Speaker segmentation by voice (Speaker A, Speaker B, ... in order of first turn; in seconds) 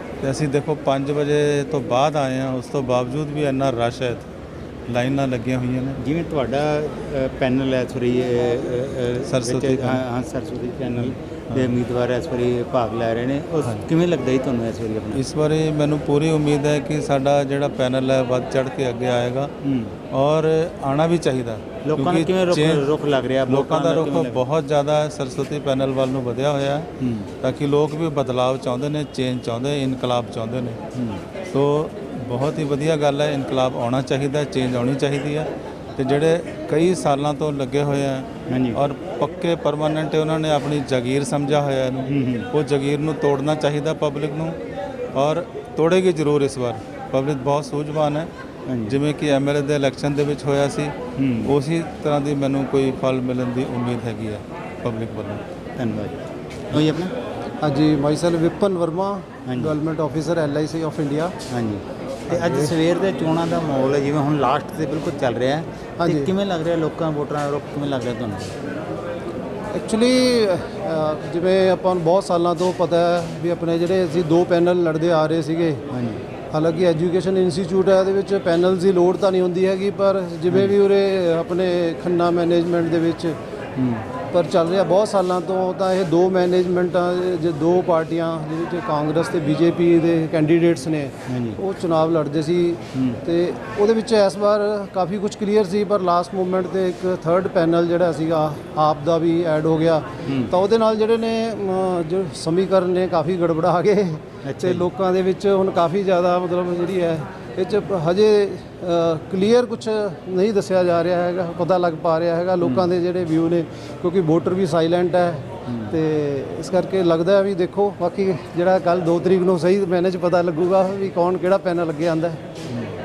Speaker A: 0.2-4.3, 4.9-6.0, 9.3-10.0, 11.0-11.8, 15.1-19.5, 20.1-22.9, 23.5-26.9, 27.4-30.8, 31.5-44.6, 45.1-48.3, 48.9-55.4
Speaker B: 6.0-15.2, 19.6-19.9, 21.9-24.4, 27.0-27.3, 38.5-38.8, 42.1-42.5, 48.7-49.0, 51.2-51.5, 55.8-57.1, 59.5-59.7, 61.5-68.5, 75.9-76.2, 83.8-84.0, 91.3-91.6, 100.3-100.5, 104.5-104.8, 112.6-112.9, 115.7-115.9
Speaker C: 57.6-61.4, 62.3-62.7, 66.0-66.3, 69.7-75.8, 76.5-83.4, 84.3-122.4